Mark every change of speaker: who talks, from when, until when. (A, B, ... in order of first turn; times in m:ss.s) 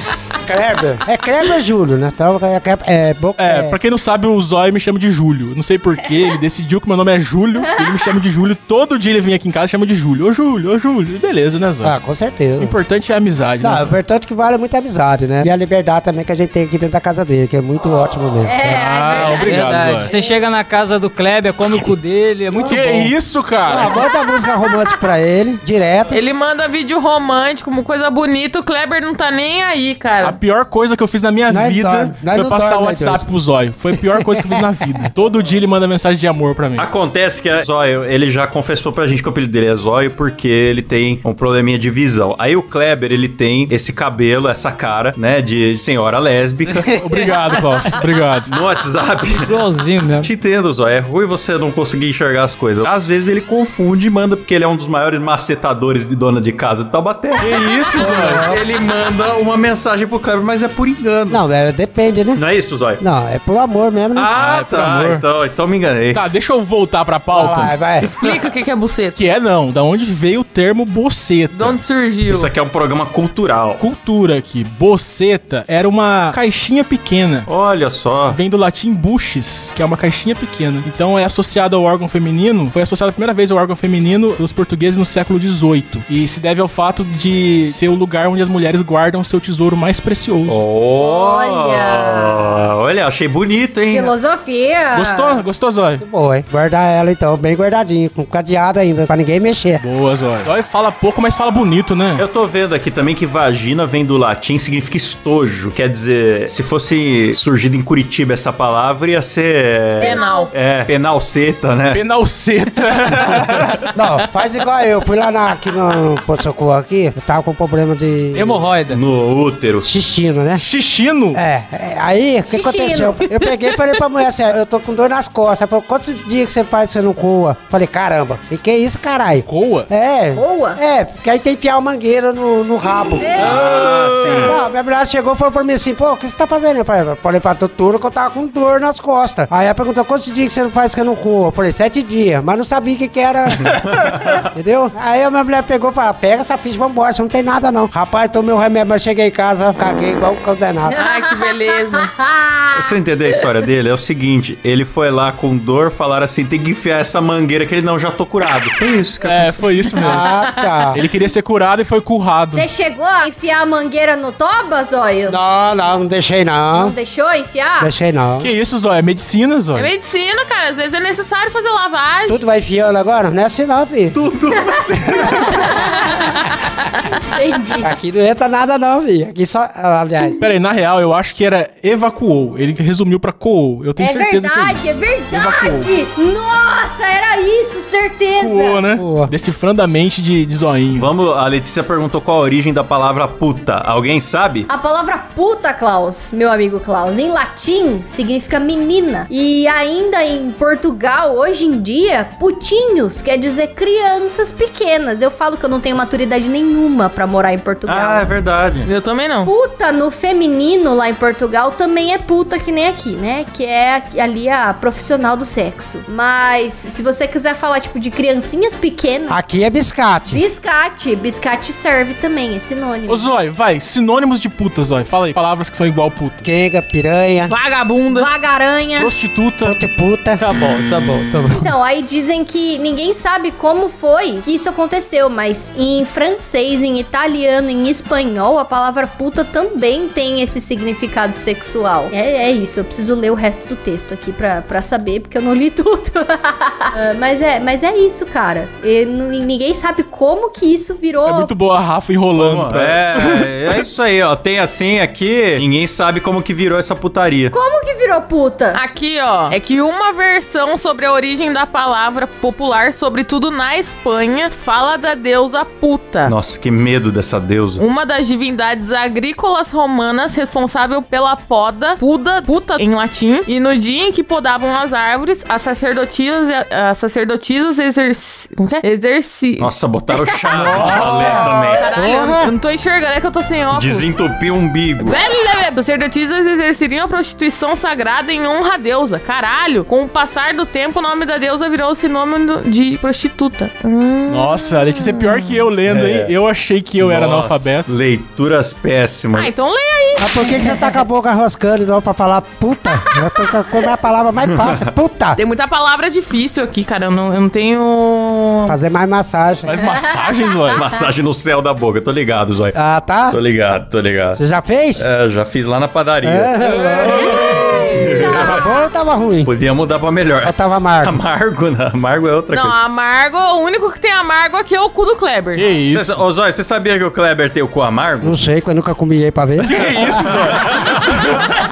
0:00.4-0:03.8 A
0:03.4-0:11.9 B
0:11.8-0:12.8 A
0:12.6-0:13.9 B
0:13.6-0:19.3 A
0:18.4-0:20.3 C
0:18.7-0:20.1 B
0:19.4-0:23.1 D
0:22.6-0:23.1 A
0:22.7-0:23.9 B
0:23.6-0:26.2 A
0:23.8-0:24.7 C
0:26.1-0:30.4 E
0:30.2-0:36.9 B
0:31.5-0:33.3 A
0:34.1-0:35.1 A
0:36.8-0:46.9 F
0:46.8-0:48.5 B
0:48.4-0:49.5 F
0:49.3-0:50.3 D
0:50.2-1:01.4 F
0:57.4-0:58.5 B
0:58.0-0:58.6 A
1:01.3-1:02.4 A
1:02.3-1:03.0 F
1:03.0-1:04.3 A
1:04.2-1:06.2 F
1:04.3-1:05.2 B
1:06.1-1:07.8 B
1:07.3-1:08.1 A
1:08.0-1:09.2 E
1:09.1-1:11.8 B
1:11.5-1:12.5 E
1:12.2-1:13.8 F
1:13.8-1:17.5 B
1:17.4-1:18.4 F
1:18.3-1:30.6 B
1:30.4-1:34.1 F
1:31.0-1:32.6 C
1:33.9-1:35.4 C
1:34.9-1:36.0 B
1:36.0-1:39.8 A
1:39.8-1:42.2 B
1:42.2-1:52.0 F
1:50.0-1:50.5 C
1:50.0-1:50.5 E
1:51.9-1:53.9 B
1:53.9-1:58.7 A
1:58.3-1:59.0 D
1:58.9-1:59.9 F
1:59.8-2:00.6 A
2:00.5-2:01.4 B
2:01.3-2:23.7 A
2:02.5-2:03.3 C
2:09.4-2:09.9 B
2:10.3-2:10.8 C
2:13.1-2:13.9 C
2:13.4-2:14.6 F
2:13.8-2:14.4 B
2:23.8-2:24.4 F
2:24.5-2:31.0 A
2:30.8-2:32.9 C
2:31.0-2:32.1 E
2:32.7-2:39.9 F
2:39.2-2:40.3 B
2:40.0-2:41.0 A
2:40.9-2:42.7 B
2:42.5-2:45.4 C
2:45.3-2:47.0 A
2:46.7-2:47.9 C
2:47.8-2:48.5 A
2:48.4-2:49.9 B
2:49.7-2:52.4 E
2:52.3-2:54.2 A
2:54.1-2:55.6 F
2:55.2-2:56.1 C
2:57.3-2:57.9 C
2:57.8-3:00.4 A
3:00.4-3:05.9 B
3:04.0-3:08.8 C
3:08.4-3:11.1 B
3:08.9-3:09.3 A
3:10.9-3:14.7 F
3:14.7-3:28.3 C
3:27.8-3:28.9 F
3:28.8-3:29.5 E
3:29.4-3:39.4 C
3:39.3-3:40.4 A
3:40.3-3:43.3 C
3:43.1-3:46.4 B
3:46.4-3:47.5 A
3:47.5-3:48.3 E
3:48.1-3:49.1 C
3:49.0-3:49.8 B
3:49.6-3:50.4 A
3:51.2-3:51.6 E
3:51.5-4:11.5 C
4:11.2-4:13.8 B
4:12.3-4:17.5 F
4:17.5-4:18.8 C
4:18.7-4:26.3 E
4:26.2-4:27.8 F
4:27.8-4:39.7 E
4:39.6-4:41.9 F
4:40.5-4:42.5 A
4:41.0-4:44.1 E
4:43.7-4:45.2 F
4:45.0-4:55.6 E
4:54.3-4:57.9 B
4:55.9-4:56.3 F
4:57.0-4:59.5 F
4:59.3-5:01.0 E
5:00.2-5:05.4 A
5:04.5-5:04.8 F
5:05.4-5:08.8 E
5:08.6-5:09.7 A
5:09.6-5:10.8 B
5:09.9-5:10.4 C
5:10.7-5:12.8 F
5:12.7-5:13.4 A
5:13.3-5:14.4 F
5:14.4-5:15.1 A
5:15.0-5:18.6 F
5:16.2-5:19.5 A
5:17.2-5:17.6 B
5:19.4-5:22.8 F
5:20.4-5:21.2 A
5:22.5-5:25.6 E
5:25.5-5:26.2 B
5:25.9-5:28.4 F
5:28.2-5:30.1 A
5:29.6-5:31.4 B
5:30.3-5:31.2 F